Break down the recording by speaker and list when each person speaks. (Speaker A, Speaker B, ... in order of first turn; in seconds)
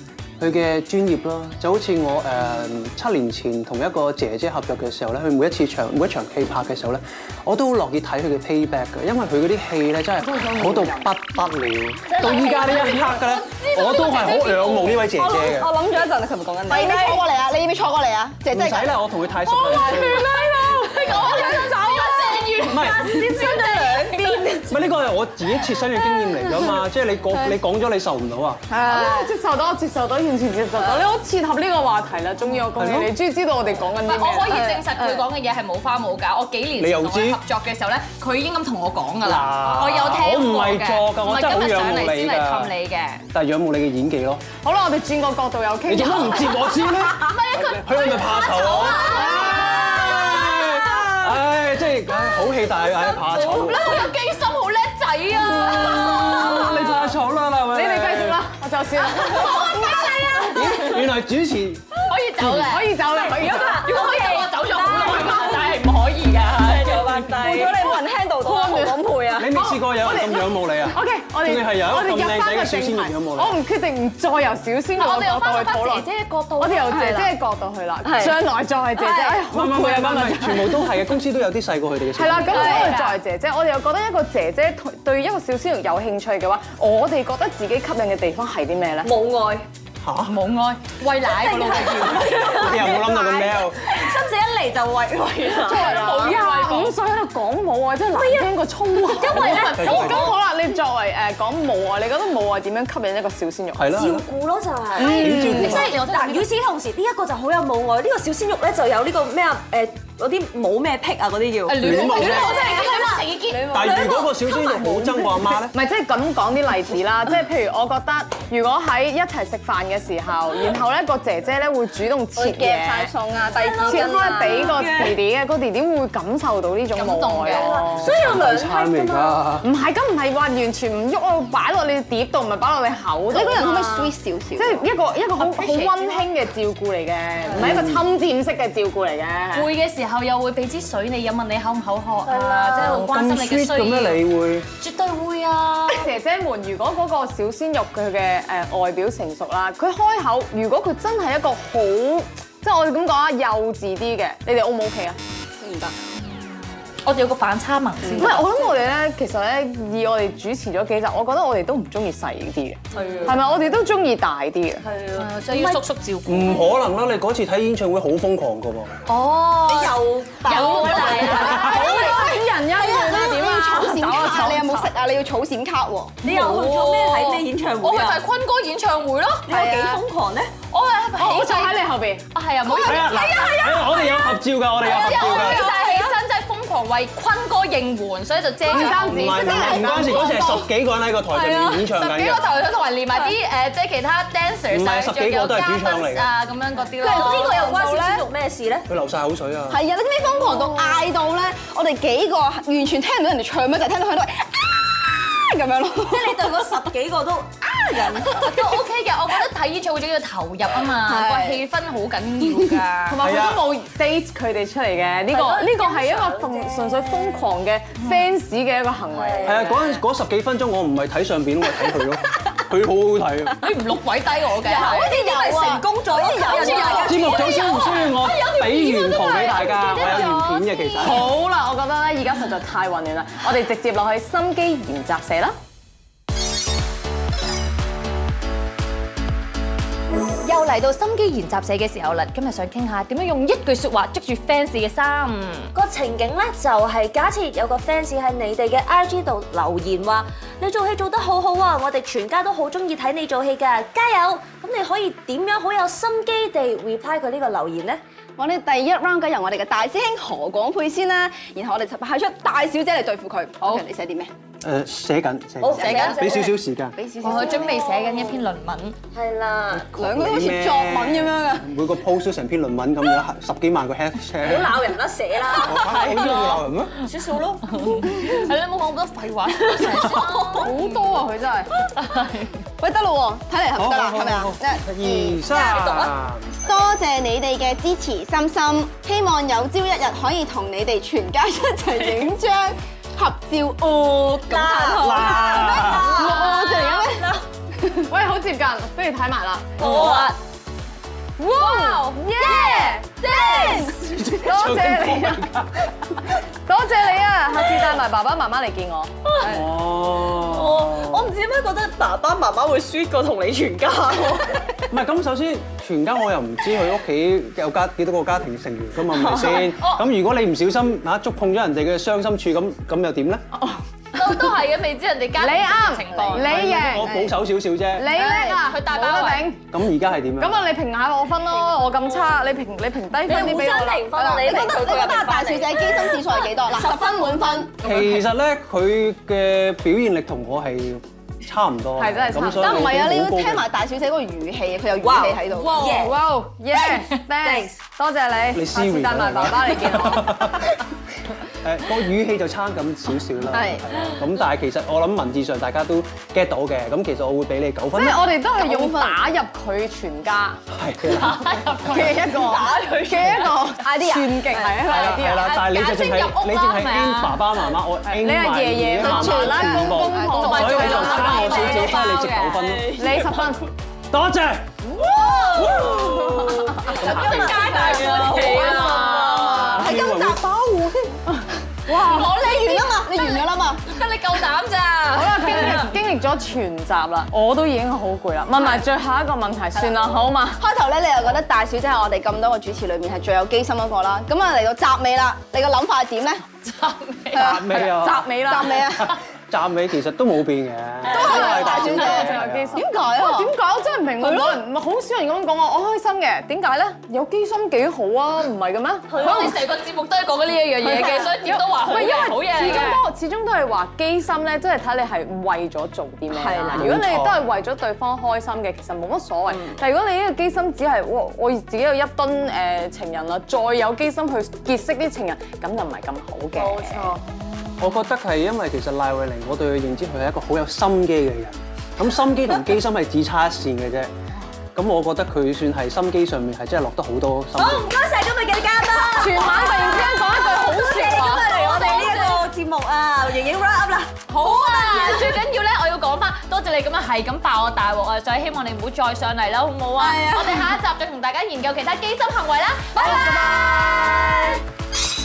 Speaker A: 0.4-15.7, 18.5-20.3, 22.7-23.1, 24.7-28.6, 32.7-33.1, 36.8-37.4, 39.2-42.7, 43.3-44.4, 45.9-54.0, 55.4-58.4, 60.5-62.7, 69.3-73.6, 79.5-82.9, 90.0-90.4, 92.5-93.9, 99.3-100.3, 103.7-104.2, 105.0-106.0, 111.8-112.7, 113.6-115.7, 128.0-129.7, 137.6-138.0, 142.8-144.7, 166.2-169.0, 182.7-185.7, 188.8-192.4, 194.7-196.3, 198.9-199.8, 213.2-213.7, 219.4-223.7, 227.0-231.3, 264.6-266.9, 269.8-274.8, 275.5-276.9, 283.7-286.5, 295.0-296.1, 304.0-305.9, 309.4-311.3, 314.9-323.4, 326.4-328.1, 329.7-330.6, 337.8-343.6, 348.5-350.8, 351.6-358.2, 360.7-361.7, 364.8-372.9, 374.1-374.7, 375.6-377.6, 379.5-381.1, 397.4-398.3, 398.9-402.7, 416.8-417.4, 427.8-434.1, 434.7-437.9
Speaker B: 10.3-11.0, 28.8-34.7, 44.6-46.8, 57.7-60.1, 62.6-63.9, 68.4-69.0, 69.8-80.8, 82.1-89.1, 95.6-103.9, 105.1-105.5, 115.7-123.1, 123.8-128.1, 129.6-139.7, 145.9-155.2, 158.2-164.8, 171.4-174.9, 181.2-182.3, 185.0-186.0, 188.7-190.6, 213.1-219.7, 224.9-225.1, 231.0-235.5, 280.6-281.7, 296.3-296.6, 298.1-300.0, 301.4-303.0, 304.4-305.5, 306.6-309.1, 323.5-324.4, 325.4-327.1, 327.9-329.6, 330.4-334.4, 342.0-343.0, 345.8-350.6, 357.9-360.6, 362.0-365.5, 368.0-372.0, 373.0-373.6, 381.9-382.3, 385.1-390.6, 397.7-398.8, 401.2-409.5, 410.8-427.2, 439.0-441.9
Speaker C: 12.1-15.2, 16.7-17.2, 19.5-24.7, 34.0-43.2, 46.5-51.1, 52.6-57.1, 59.0-59.9, 62.0-67.4, 75.0-77.3, 82.3-83.2, 90.3-92.7, 95.7-97.0, 105.1-106.5, 111.7-114.1, 127.0-127.8, 135.3-136.3, 137.5-137.7, 139.5-144.2, 144.8-146.1, 157.0-158.4, 163.0-163.3, 165.1-166.7, 169.1-172.2, 176.2-179.5, 180.7-184.2, 184.8-190.5, 191.3-197.8, 200.3-201.1, 208.3-213.2, 218.0-218.3, 223.6-224.9, 226.4-231.2, 240.4-245.7, 263.6-263.9, 265.8-266.2, 267.2-269.0, 275.8-276.6, 277.7-281.2, 281.9-282.5, 296.3-296.8, 299.8-300.4, 301.4-303.8, 324.1-326.6, 328.1-329.5, 361.2-362.4, 364.9-367.7, 370.2-372.6, 375.0-379.9, 382.0-385.9, 396.6-397.5, 401.1-402.2, 409.1-413.0, 439.4-440.0, 444.3-454.5
Speaker D: 15.1-18.9, 19.8-20.1, 20.9-21.8, 28.7-29.3, 30.8-31.1, 34.5-35.2, 59.3-59.7, 67.3-69.6, 78.0-78.4, 78.9-79.4, 122.3-124.9, 133.3-134.8, 155.6-155.9, 158.0-158.7, 170.7-176.2, 179.5-180.0, 189.2-190.2, 197.0-198.2, 199.7-206.9, 207.7-208.8, 210.9-211.6, 224.7-227.5, 258.4-264.3, 265.7-268.1, 269.9-271.6, 282.8-298.1, 302.5-304.1, 326.9-327.4, 334.2-337.9, 342.5-346.1, 353.5-353.8, 358.6-359.2, 361.8-364.8, 369.0-371.9, 375.6-376.0, 378.4-380.4, 381.9-383.8, 390.6-396.4, 397.3-397.9, 398.4-399.1, 401.1-403.5, 404.2-404.6, 416.3-416.9, 450.0-450.7, 452.9-454.6
Speaker E: 21.5-24.6, 59.7-60.7, 63.3-65.8, 66.6-67.9, 89.0-89.7, 91.2-96.3, 98.1-100.3, 103.9-114.3, 123.4-125.2, 127.5-129.4, 142.3-143.0, 162.9-163.3, 164.8-165.8, 169.7-171.8, 176.2-178.2, 179.5-180.5, 197.0-198.8, 206.0-208.3, 215.3-217.1, 219.1-220.0, 224.6-227.5, 245.7-258.0, 265.6-266.4, 267.6-268.4, 269.1-269.9, 274.4-276.1, 277.0-277.8, 279.8-280.6, 294.5-297.4, 299.8-300.3, 303.2-303.9, 309.2-309.6, 310.3-314.8, 319.1-319.6, 333.2-337.7, 345.0-346.2, 347.4-347.7, 362.7-363.3, 372.6-373.5, 375.0-379.7, 409.1-409.6, 410.8-411.2, 426.6-427.2, 437.5-445.4, 452.9-453.4